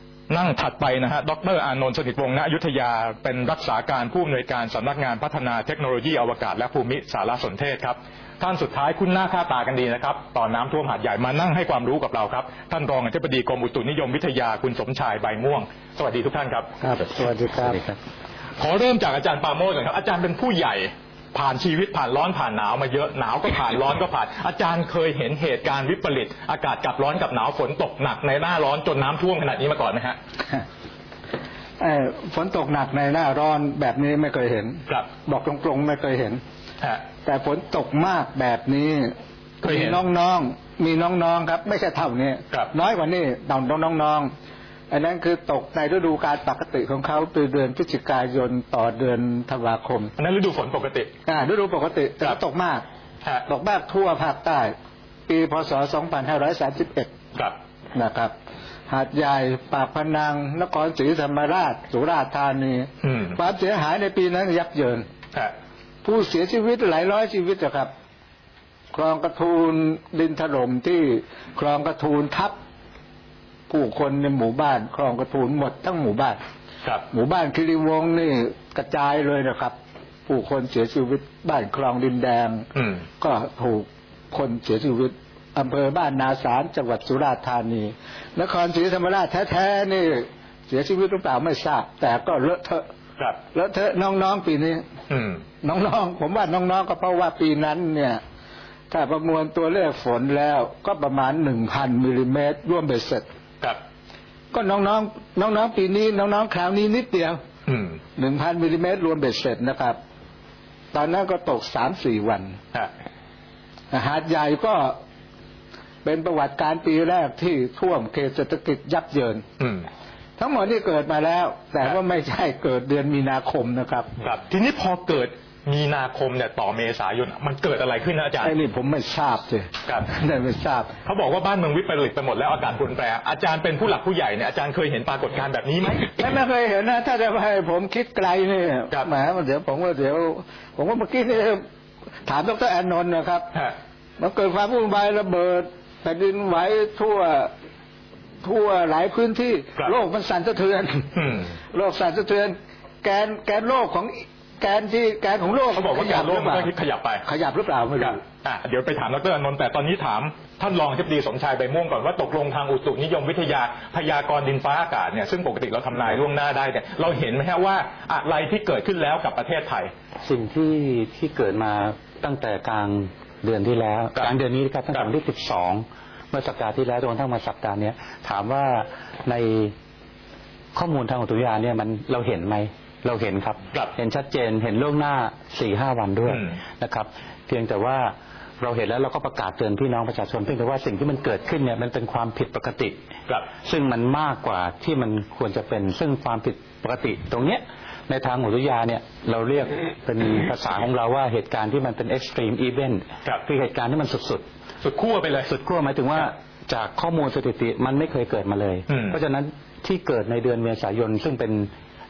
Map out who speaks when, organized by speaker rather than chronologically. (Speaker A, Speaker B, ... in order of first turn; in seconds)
Speaker A: 0.3-16.7, 18.6-30.2, 39.6-40.0, 50.2-51.1, 63.0-63.3, 95.1-95.4, 107.7-108.0, 119.6-119.9, 124.2-128.5, 131.0-136.3, 151.2-151.4, 155.7-157.2, 158.0-169.9, 204.8-205.5, 208.9-209.2
Speaker B: 16.8-18.0, 170.2-179.7, 180.7-193.0, 193.6-204.4, 205.5-211.7
Speaker C: 31.8-36.4, 37.2-39.1, 39.6-44.3, 44.9-50.1, 51.3-52.8, 53.5-54.7, 55.3-57.1, 57.9-58.3, 58.9-65.1, 66.0-67.9, 68.9-72.6, 73.7-76.4, 77.1-79.8, 80.3-82.7, 83.2-92.8, 93.5-94.8, 95.6-98.2, 98.9-103.2, 104.5-107.4, 108.2-110.0, 110.9-112.6, 113.9-115.0, 116.0-119.4, 120.4-124.1, 128.4-130.9, 136.1-141.6, 142.2-143.5, 144.2-147.5, 148.4-151.1, 151.7-156.7, 157.2-158.2